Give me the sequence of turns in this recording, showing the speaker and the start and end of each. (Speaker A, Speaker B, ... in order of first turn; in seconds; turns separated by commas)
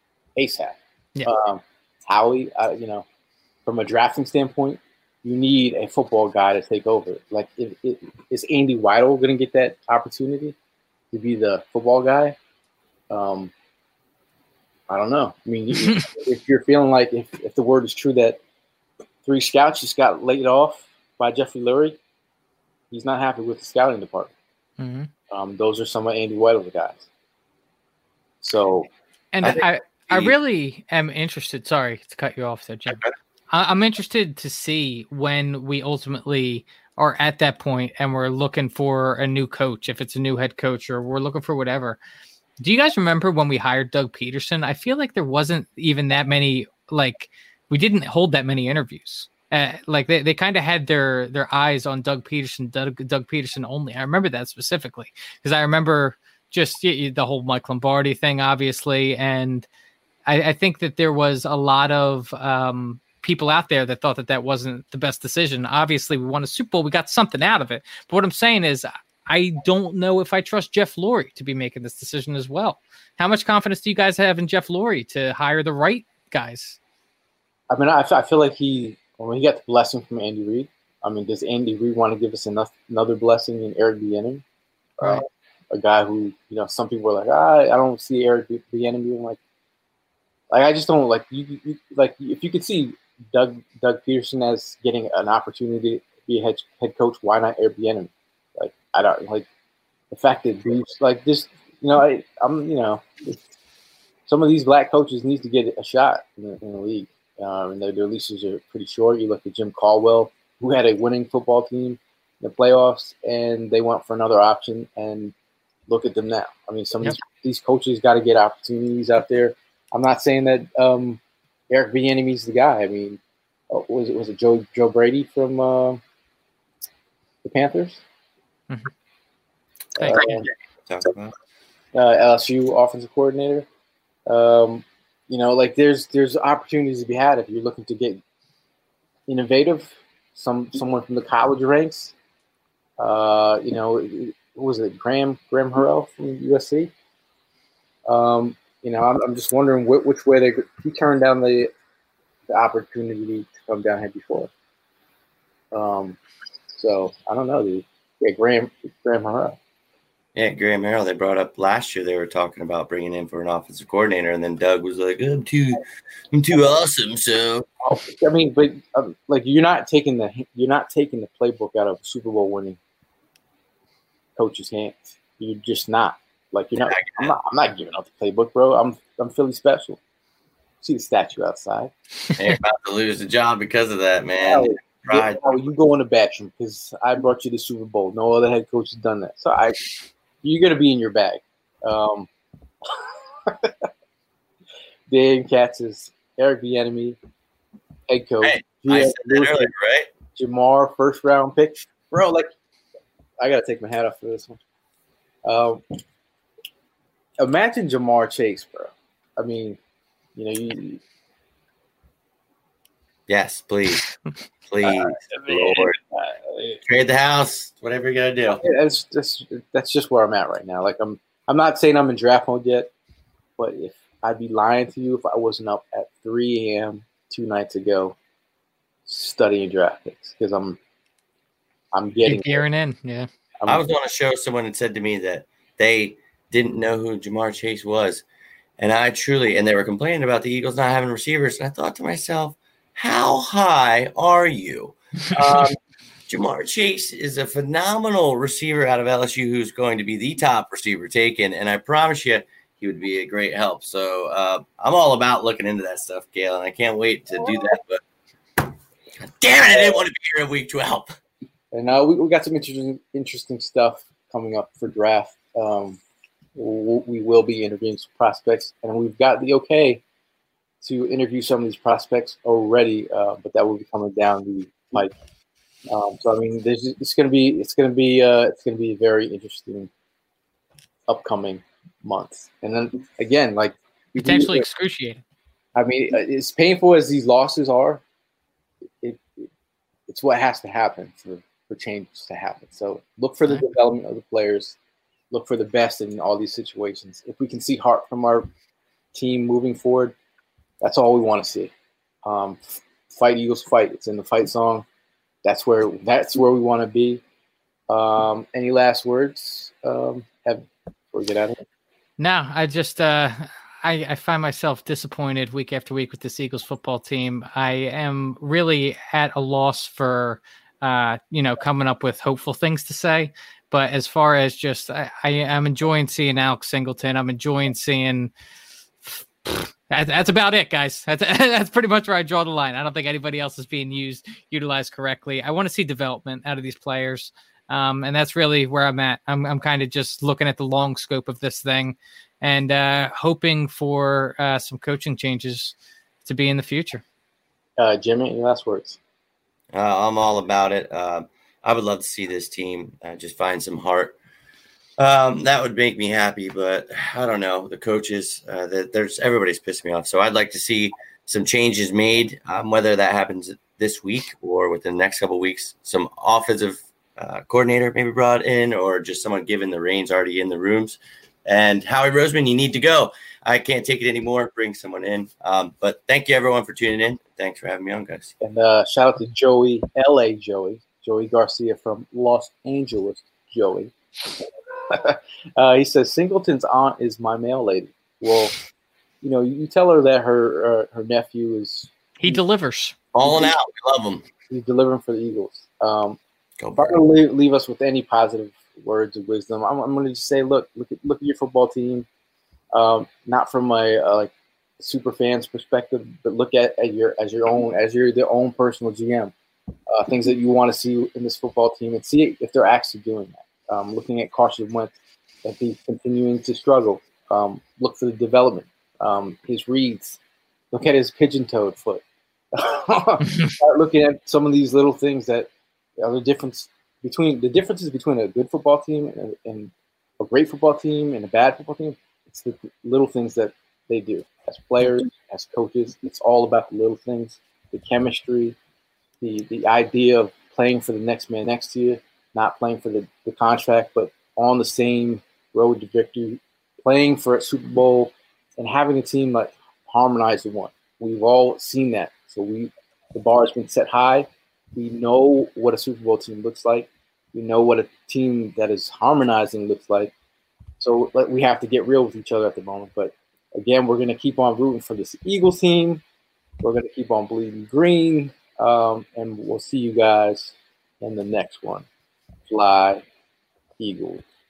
Speaker A: 0.4-3.0, Speaker A: 3.6-10.6, Speaker A: 11.1-12.4, Speaker A: 13.1-13.5, Speaker A: 14.9-18.4, Speaker A: 19.2-22.0, Speaker A: 22.9-24.3, Speaker B: 24.8-25.1, Speaker A: 25.3-27.1, Speaker A: 28.4-28.9, Speaker B: 29.3-42.0, Speaker C: 29.4-30.3, Speaker B: 42.6-59.7, Speaker B: 60.3-76.8, Speaker A: 77.7-84.4, Speaker A: 85.0-89.4, Speaker B: 85.0-85.2, Speaker A: 90.5-99.5, Speaker A: 100.1-103.4, Speaker A: 104.3-115.3, Speaker A: 115.9-126.0, Speaker A: 127.4-128.0, Speaker A: 130.0-130.5, Speaker B: 130.0-130.3, Speaker C: 130.9-131.3, Speaker A: 131.9-133.7, Speaker A: 134.3-138.2, Speaker A: 139.3-142.1, Speaker A: 143.0-146.9, Speaker A: 148.1-151.7, Speaker A: 152.5-154.5, Speaker A: 155.7-156.2, Speaker A: 156.7-159.6, Speaker C: 160.3-167.7, Speaker A: 167.9-172.8, Speaker A: 174.4-180.0, Speaker C: 176.8-177.3, Speaker A: 180.8-181.9, Speaker C: 182.4-185.7, Speaker A: 184.4-189.8, Speaker A: 190.4-192.3, Speaker A: 192.9-193.9, Speaker A: 195.1-197.2, Speaker A: 198.1-199.7, Speaker C: 198.4-200.1, Speaker A: 200.3-202.5, Speaker A: 203.4-204.6, Speaker A: 205.4-205.8, Speaker A: 207.4-209.8, Speaker A: 210.3-211.0, Speaker C: 213.3-214.1, Speaker C: 214.7-216.0, Speaker A: 214.8-216.8, Speaker C: 216.8-218.7, Speaker A: 218.5-222.9, Speaker A: 223.6-228.2, Speaker A: 229.1-230.8, Speaker A: 231.9-232.6, Speaker B: 232.3-233.3, Speaker A: 233.6-233.9, Speaker C: 233.7-238.2, Speaker C: 238.8-245.7, Speaker A: 245.3-245.8, Speaker C: 246.3-258.0, Speaker C: 259.2-261.1, Speaker A: 259.7-260.0, Speaker A: 261.7-266.0, Speaker A: 266.6-270.0, Speaker A: 270.8-275.1, Speaker A: 275.9-279.9, Speaker A: 281.1-284.7, Speaker B: 284.2-285.2, Speaker A: 285.8-288.0, Speaker A: 289.0-289.5, Speaker A: 290.1-294.8, Speaker A: 295.3-298.5, Speaker A: 299.1-300.2, Speaker A: 300.8-301.7, Speaker A: 302.2-304.9, Speaker A: 305.4-307.2, Speaker A: 307.9-311.6, Speaker B: 312.2-328.3, Speaker B: 329.0-345.8, Speaker B: 346.3-347.0, Speaker A: 347.8-349.0, Speaker C: 349.7-354.1, Speaker C: 355.0-378.3, Speaker A: 378.4-388.6, Speaker A: 389.2-392.4, Speaker B: 392.2-393.0, Speaker C: 393.1-394.2, Speaker A: 393.2-393.5, Speaker A: 394.5-396.2, Speaker C: 396.6-397.0, Speaker A: 396.8-402.1, Speaker A: 402.7-409.3, Speaker A: 409.9-420.2, Speaker A: 420.7-438.6, Speaker A: 439.2-460.1, Speaker A: 460.8-466.0, Speaker A: 466.6-471.9, Speaker A: 472.5-473.1, Speaker A: 473.8-474.2